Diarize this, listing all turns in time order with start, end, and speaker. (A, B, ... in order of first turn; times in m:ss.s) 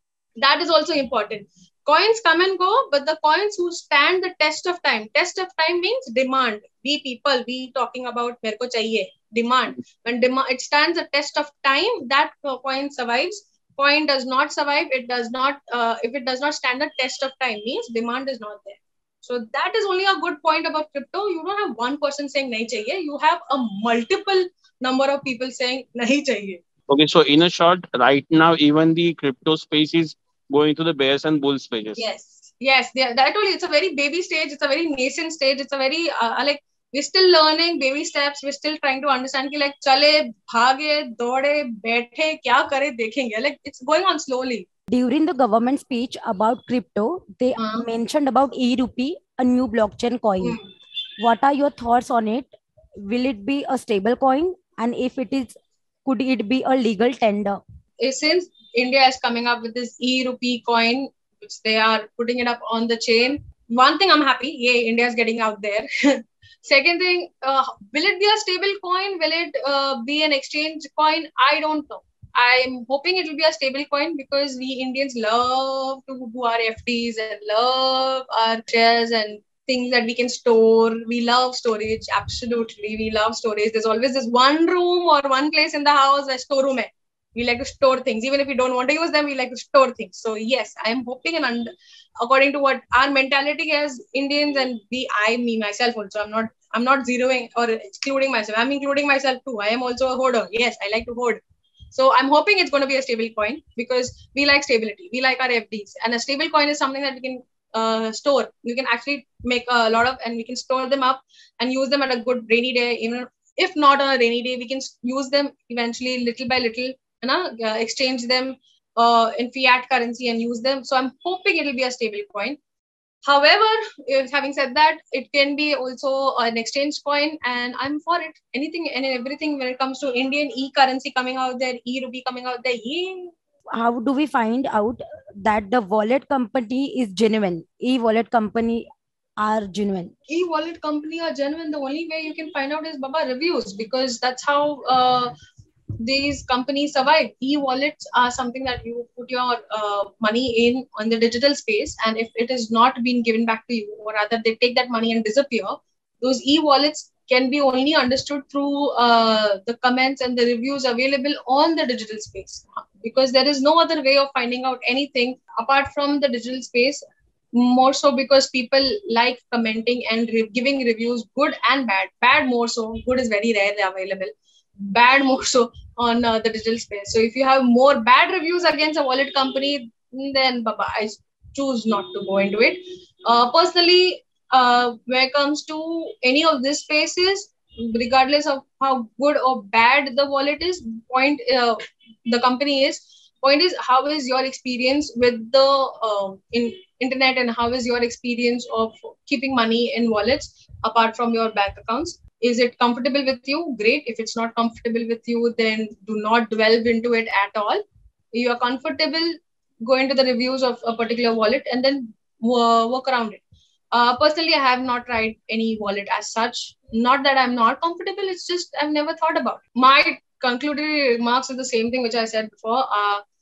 0:00.4-0:26.6 A
0:26.9-0:32.0 B
0:32.0-0:44.7 A
0:44.9-0:50.6 C
0:47.6-0:47.8 A
0:50.4-0:50.7 A
0:51.2-0:52.5 C
0:53.0-0:57.6 C
0:58.0-1:41.4 A
1:41.9-2:02.6 A
2:03.2-2:13.3 A
2:13.8-2:18.9 C
2:19.4-2:20.1 C
2:20.3-2:25.3 A
2:26.0-2:47.0 A
2:47.5-3:27.8 A
3:28.3-3:33.4 A
3:33.9-3:43.2 A